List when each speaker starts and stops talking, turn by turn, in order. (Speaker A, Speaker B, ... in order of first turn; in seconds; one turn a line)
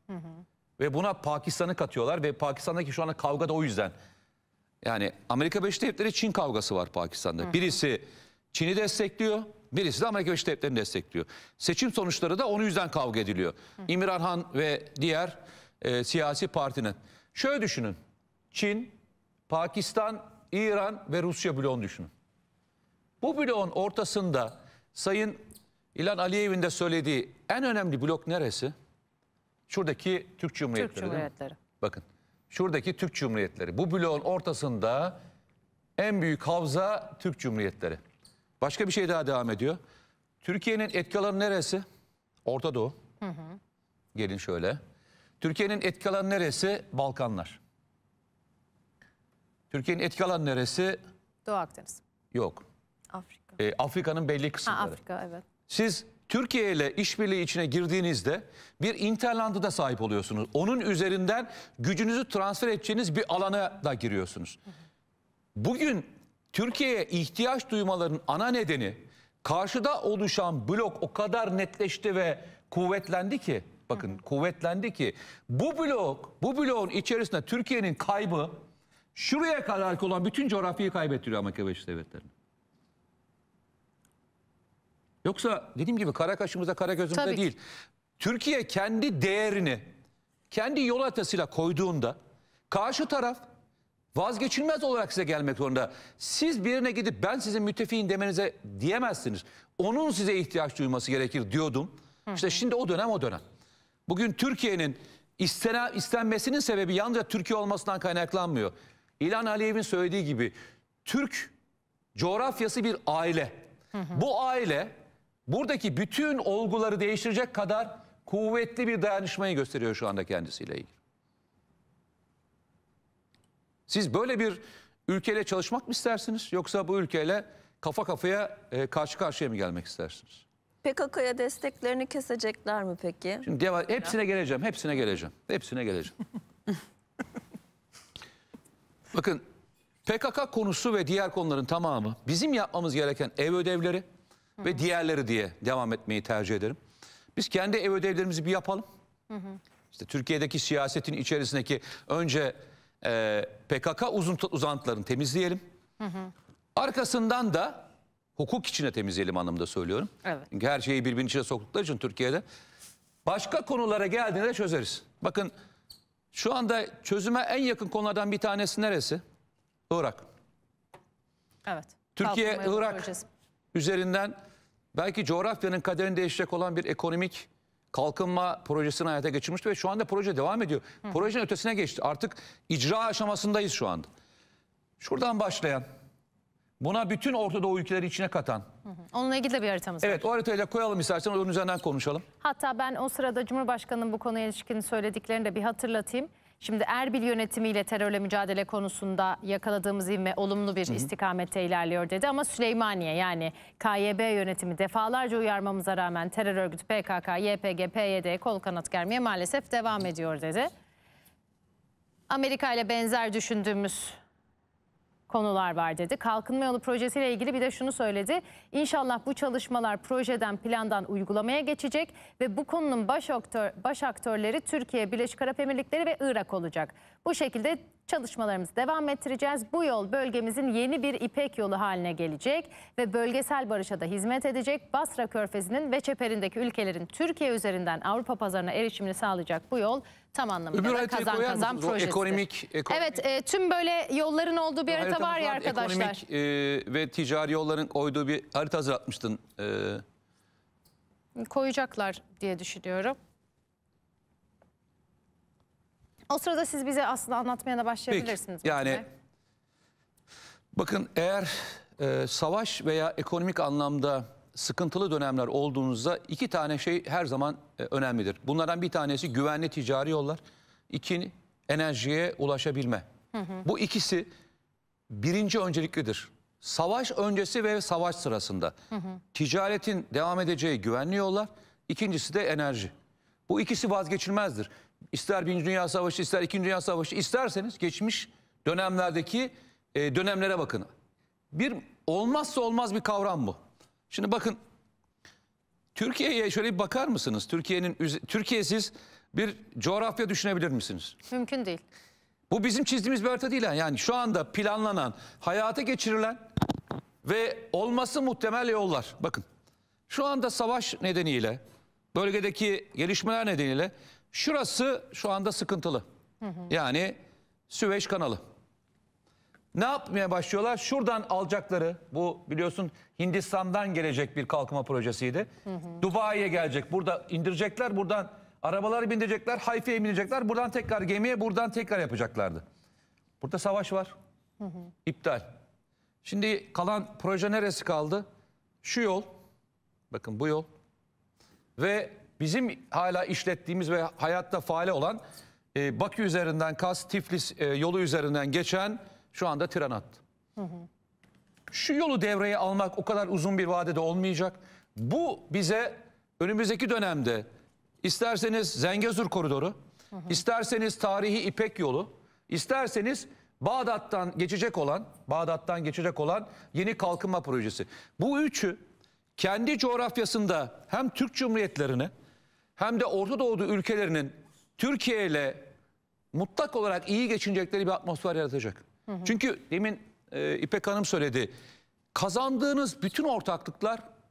Speaker A: 0.8-3.9
Speaker A: 4.8-18.0
Speaker A: 18.5-18.9
Speaker A: 19.5-22.1
Speaker A: 23.2-25.4
Speaker A: 25.9-28.7
Speaker A: 29.7-31.3
Speaker B: 30.8-31.6
Speaker A: 31.8-35.2
Speaker A: 36.0-38.0
Speaker A: 38.6-39.8
Speaker A: 40.4-41.8
Speaker A: 42.5-43.0
Speaker B: 43.2-43.6
Speaker A: 44.1-44.8
Speaker A: 45.4-47.6
Speaker A: 49.7-51.0
Speaker B: 51.5-52.0
Speaker A: 52.3-52.6
Speaker A: 53.6-55.0
Speaker B: 54.7-55.5
Speaker A: 55.7-64.6
Speaker A: 65.6-78.6
Speaker A: 79.2-82.3
Speaker A: 85.2-87.6
Speaker B: 87.1-87.4
Speaker A: 88.2-89.9
Speaker A: 90.5-92.2
Speaker A: 92.7-93.4
Speaker A: 94.1-103.4
Speaker A: 104.1-110.5
Speaker A: 111.0-111.5
Speaker A: 112.2-114.9
Speaker A: 115.5-120.9
Speaker A: 123.9-130.4
Speaker C: 130.8-133.4
Speaker A: 133.4-136.2
Speaker A: 139.1-139.4
Speaker A: 140.1-144.1
Speaker A: 144.6-146.8
Speaker A: 147.3-148.8
Speaker B: 149.3-149.6
Speaker A: 149.9-155.6
Speaker B: 156.0-156.3
Speaker A: 156.8-157.9
Speaker A: 158.4-162.4
Speaker A: 163.2-165.5
Speaker A: 166.3-169.2
Speaker A: 169.9-170.2
Speaker B: 171.7-173.3
Speaker A: 172.2-173.1
Speaker A: 173.7-174.4
Speaker A: 174.9-184.1
Speaker A: 185.0-185.8
Speaker A: 186.8-188.7
Speaker B: 188.9-190.2
Speaker A: 190.0-192.2
Speaker B: 192.4-210.7
Speaker B: 212.3-214.2
Speaker B: 215.3-246.2
Speaker A: 240.7-243.2
Speaker A: 244.9-250.0
Speaker B: 251.4-253.2
Speaker B: 256.3-259.1
Speaker A: 258.1-259.0
Speaker A: 260.7-273.1
Speaker A: 273.6-274.3
Speaker A: 275.1-278.8
Speaker A: 279.3-282.9
Speaker A: 283.5-290.9
Speaker A: 291.5-293.6
Speaker A: 294.1-294.6
Speaker A: 295.9-301.2
Speaker B: 301.3-301.8
Speaker A: 302.5-306.4
Speaker A: 307.2-309.4
Speaker A: 310.1-311.6
Speaker A: 312.1-316.0
Speaker A: 316.7-317.2
Speaker A: 317.7-318.4
Speaker A: 319.7-332.6
Speaker A: 333.4-334.1
Speaker A: 335.1-335.5
Speaker A: 336.2-338.3
Speaker A: 338.8-339.3
Speaker A: 340.1-340.7
Speaker A: 341.8-345.2
Speaker A: 345.7-350.2
Speaker A: 351.7-357.5
Speaker A: 358.0-359.8
Speaker A: 360.3-368.8
Speaker A: 369.4-372.1
Speaker A: 372.8-375.7
Speaker A: 376.3-381.5
Speaker A: 382.1-384.0